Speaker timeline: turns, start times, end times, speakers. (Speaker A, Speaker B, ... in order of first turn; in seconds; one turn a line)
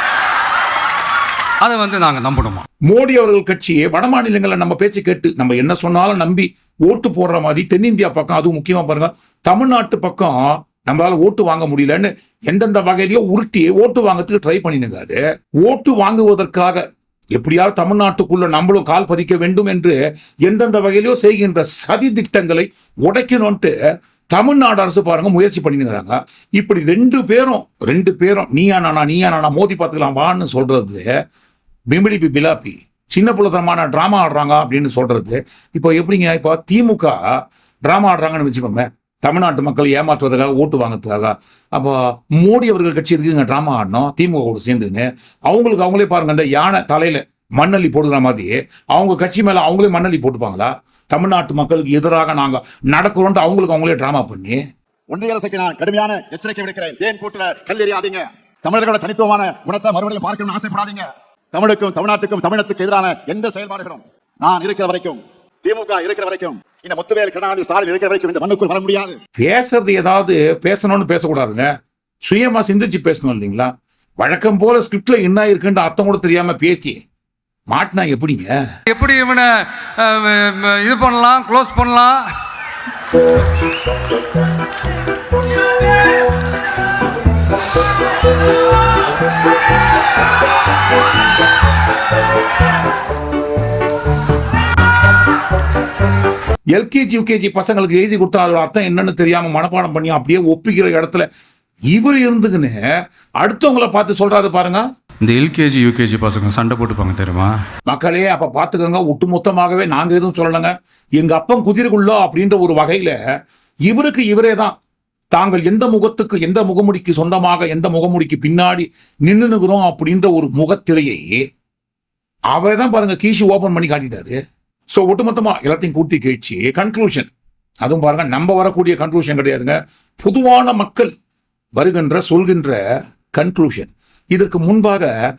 Speaker A: 1.6-2.6
Speaker B: 2.9-16.8
Speaker B: 17.4-23.7
Speaker B: 24.3-31.1
Speaker B: 31.9-37.2
Speaker B: 37.8-54.6
Speaker C: 55.1-69.2
Speaker B: 69.4-71.7
Speaker B: 72.2-77.0
Speaker B: 77.7-78.5
Speaker A: 78.9-82.3
Speaker B: 96.7-101.3
Speaker B: 101.9-102.8
Speaker B: 103.4-104.8
Speaker A: 105.2-107.5
Speaker B: 107.9-113.2
Speaker B: 113.9-114.8
Speaker B: 115.3-121.4
Speaker B: 122.5-124.4
Speaker B: 124.9-127.3
Speaker B: 127.8-131.1
Speaker B: 131.8-132.8
Speaker B: 133.3-135.1